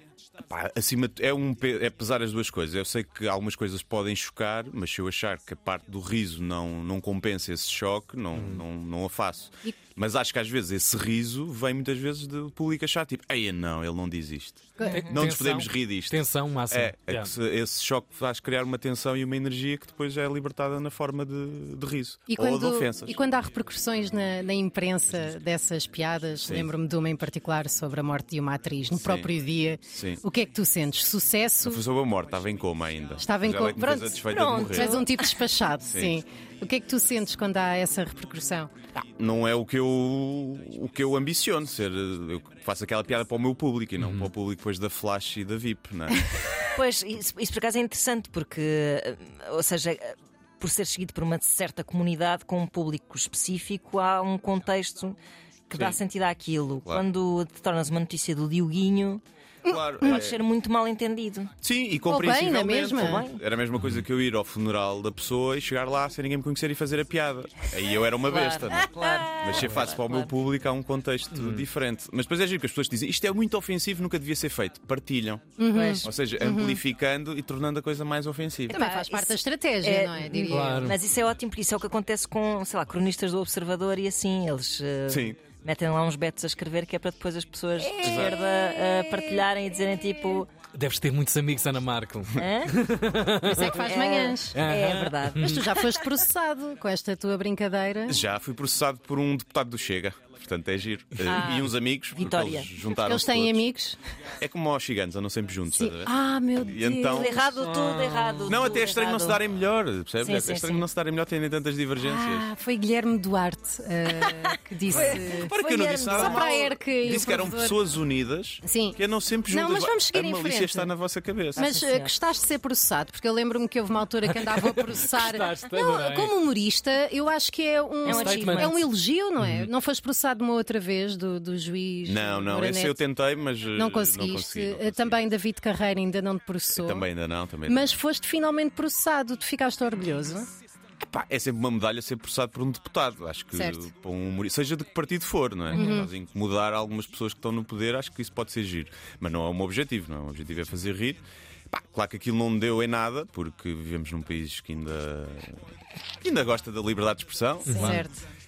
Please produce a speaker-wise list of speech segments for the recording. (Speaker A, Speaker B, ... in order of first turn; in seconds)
Speaker A: 0.5-23.2, 26.4-26.7, 29.0-29.3, 29.9-30.2, 31.6-35.0, 35.9-36.2, 39.0-46.3, 59.6-60.4, 61.6-75.5, 76.0-78.8, 85.1-85.4, 88.0-88.4, 98.1-103.7, 104.4-107.4, 108.5-112.5, 114.9-121.7, 132.1-135.2, 136.7-137.9, 141.0-155.6, 156.2-158.0
Speaker B: 8.3-8.6, 14.9-17.3, 44.0-44.3, 71.3-71.7, 80.5-81.0, 90.7-93.8, 94.5-95.7, 107.6-108.6, 124.3-126.3, 128.1-128.8, 129.4-129.7, 157.7-158.0
Speaker C: 14.8-15.0, 22.3-31.8, 33.2-38.7, 59.7-60.2, 62.1-63.2, 68.8-69.3, 75.6-76.8, 78.7-81.0, 93.4-94.6, 95.4-98.2, 103.0-104.0, 105.8-107.4, 112.0-115.5, 116.1-117.8, 118.6-120.9, 121.6-133.0, 133.7-137.1, 137.7-140.5, 143.5-143.9, 145.7-146.1, 157.8-158.2
Speaker D: 14.8-15.2, 34.2-35.3, 46.8-55.2, 55.7-59.2, 60.0-61.5, 62.9-63.4, 68.2-70.3, 75.7-76.1, 78.7-90.5, 92.3-92.7, 93.7-95.5, 101.2-102.9, 107.1-109.4, 110.2-110.9, 114.9-116.5, 121.5-122.1, 128.0-128.8